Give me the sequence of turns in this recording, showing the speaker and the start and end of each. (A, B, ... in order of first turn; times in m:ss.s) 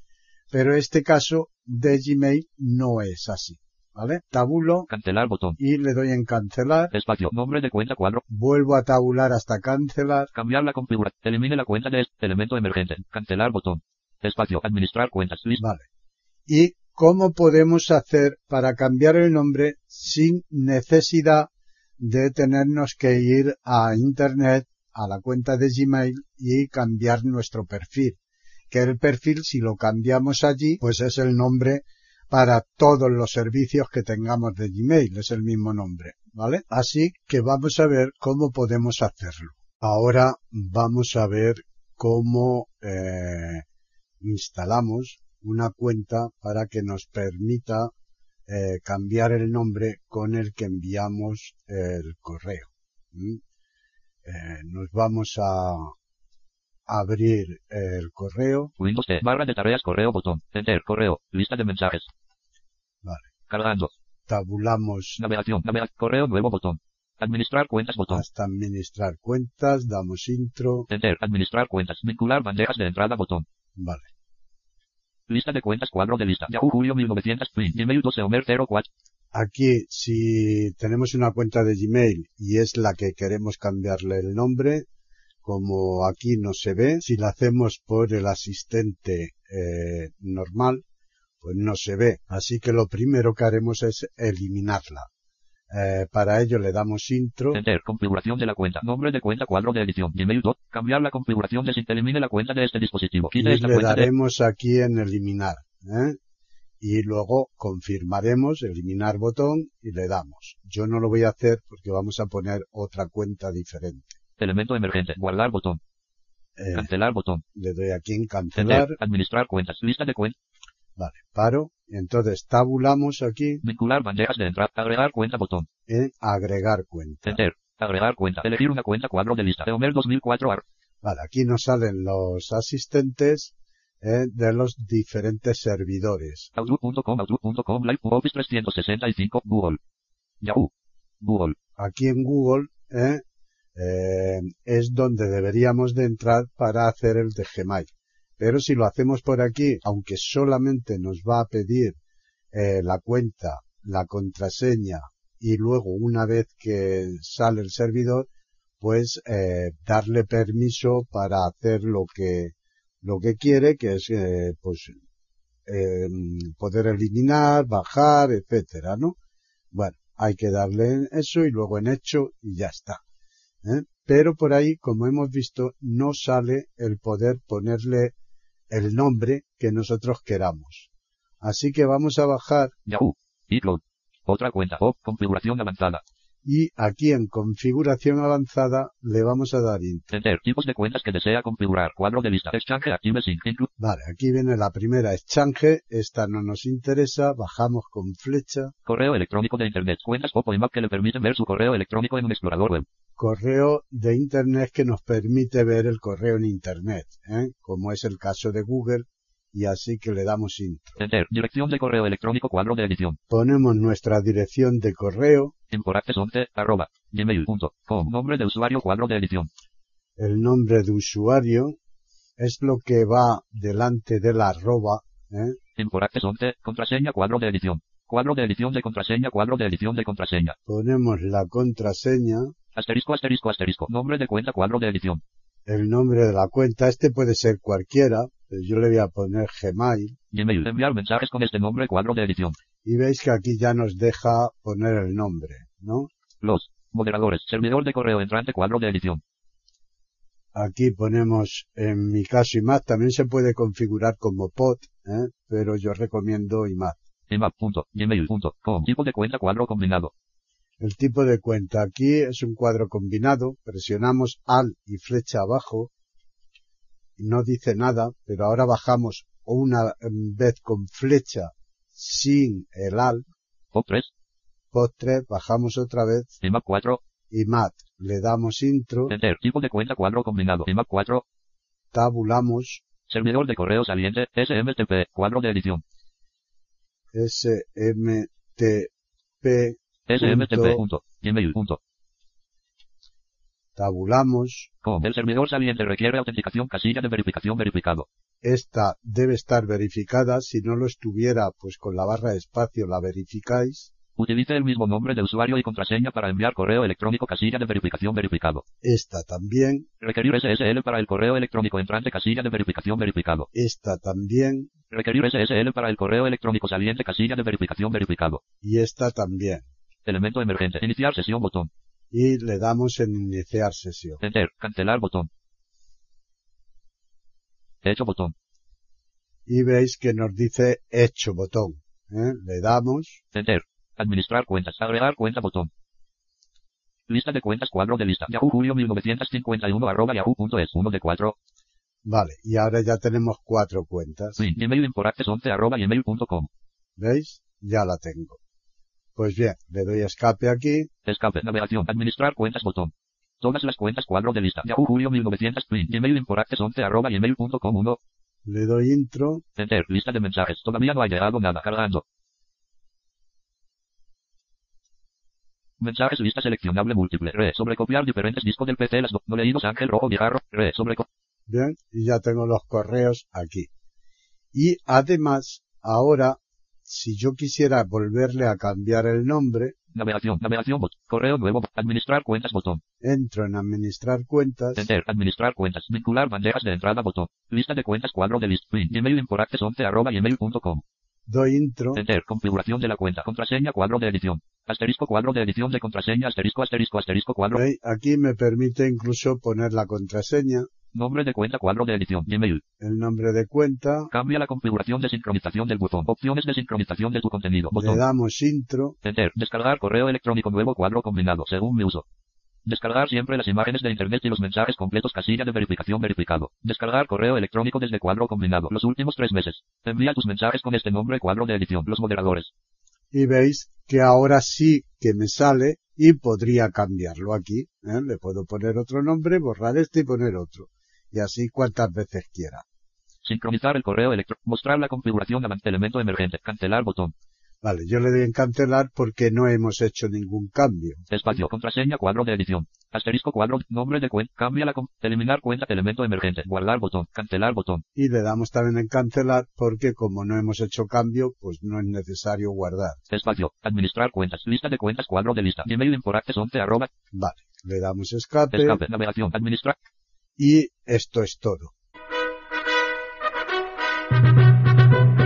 0:00.5-0:04.9 A
0:04.9-0:05.6 B
0:05.6-0:06.9 A
0:06.9-0:08.2 B
0:08.3-0:10.3 A
0:10.3-0:15.6 B
0:15.6-0:15.9 A
0:16.5-0:28.2 A
0:28.7-0:43.6 A
0:44.2-0:47.9 A
0:48.5-0:53.4 A
0:54.2-0:55.9 A
0:56.9-0:58.7 A
0:58.8-1:02.1 B
1:03.0-1:03.3 A
1:03.5-1:03.9 B
1:04.3-1:05.2 A
1:05.2-1:08.2 B
1:08.1-1:10.9 A
1:10.9-1:13.4 B
1:13.8-1:14.1 A
1:15.3-1:18.9 B
1:19.3-1:24.9 A
1:25.4-1:30.8 A
1:31.4-1:35.1 A
1:35.7-1:37.6 A
1:37.5-1:44.1 B
1:43.3-1:46.2 A
1:46.8-1:54.2 A
1:54.4-1:55.8 B
1:56.6-1:56.9 A
1:56.7-1:57.4 B
1:57.5-1:59.0 A
1:58.6-2:00.3 B
2:01.0-2:03.6 A
2:03.6-2:05.7 B
2:05.9-2:07.4 A
2:07.2-2:10.6 B
2:11.0-2:16.5 A
2:16.6-2:19.8 B
2:20.4-2:20.7 B
2:21.2-2:21.6 B
2:21.8-2:23.2 A
2:23.7-2:32.0 A
2:32.5-2:38.3 A
2:38.8-2:45.0 A
2:45.7-2:49.2 A
2:49.7-2:53.0 A
2:53.6-2:58.1 A
2:58.7-3:00.9 A
3:01.4-3:02.7 A
3:02.9-3:06.0 B
3:06.4-3:10.1 A
3:10.1-3:13.7 B
3:13.8-3:18.7 A
3:18.8-3:22.8 B
3:23.2-3:31.0 A
3:31.0-3:33.2 B
3:33.3-3:35.5 A
3:35.7-3:39.5 B
3:40.2-3:41.8 A
3:42.4-3:45.6 A
3:45.8-3:50.6 B
3:50.6-3:52.5 A
3:52.7-3:55.2 B
3:55.6-4:00.2 A
4:00.3-4:02.6 B
4:02.8-4:06.1 A
4:06.4-4:09.2 B
4:10.5-4:17.0 A
4:17.3-4:20.1 B
4:20.8-4:25.9 A
4:27.2-4:33.3 A
4:33.7-4:34.1 B
4:34.7-4:36.3 A
4:36.4-4:37.0 B
4:37.3-4:39.1 A
4:39.1-4:41.2 B
4:41.9-4:42.8 A
4:43.1-4:45.8 B
4:47.1-4:48.9 A
4:49.4-4:50.8 A
4:50.1-4:51.8 B
4:53.7-4:54.7 A
4:54.8-4:58.1 B
4:58.4-5:03.9 A
5:04.2-5:08.6 B
5:08.8-5:09.9 A
5:10.0-5:13.5 B
5:13.5-5:14.7 A
5:14.9-5:18.4 B
5:18.6-5:19.7 A
5:20.0-5:21.7 B
5:22.1-5:24.2 A
5:24.2-5:25.3 B
5:27.8-5:28.3 B
5:29.5-5:33.2 A
5:33.3-5:35.7 B
5:37.1-5:41.3 B
5:42.0-5:44.4 A
5:44.4-5:46.5 B
5:47.0-5:48.4 A
5:49.2-5:50.9 A
5:51.0-5:58.0 B
5:58.4-5:59.4 A
5:59.6-6:02.0 B
6:05.8-6:11.0 B
6:11.5-6:13.7 A
6:14.5-6:19.8 A
6:19.9-6:22.8 B
6:23.0-6:24.9 A
6:24.8-6:30.8 B
6:31.3-6:32.0 A
6:31.9-6:37.6 B
6:37.5-6:40.7 A
6:40.9-6:42.6 B
6:42.8-6:44.1 A
6:44.1-6:48.0 B
6:47.7-6:49.0 A
6:49.0-6:52.0 B
6:52.6-7:02.5 B
7:03.1-7:12.6 A
7:13.2-7:17.1 B
7:17.6-7:21.1 A
7:21.1-7:27.8 B
7:27.9-7:33.0 A
7:33.1-7:36.9 B
7:37.1-7:38.8 A
7:38.5-7:39.8 B
7:40.4-7:41.7 A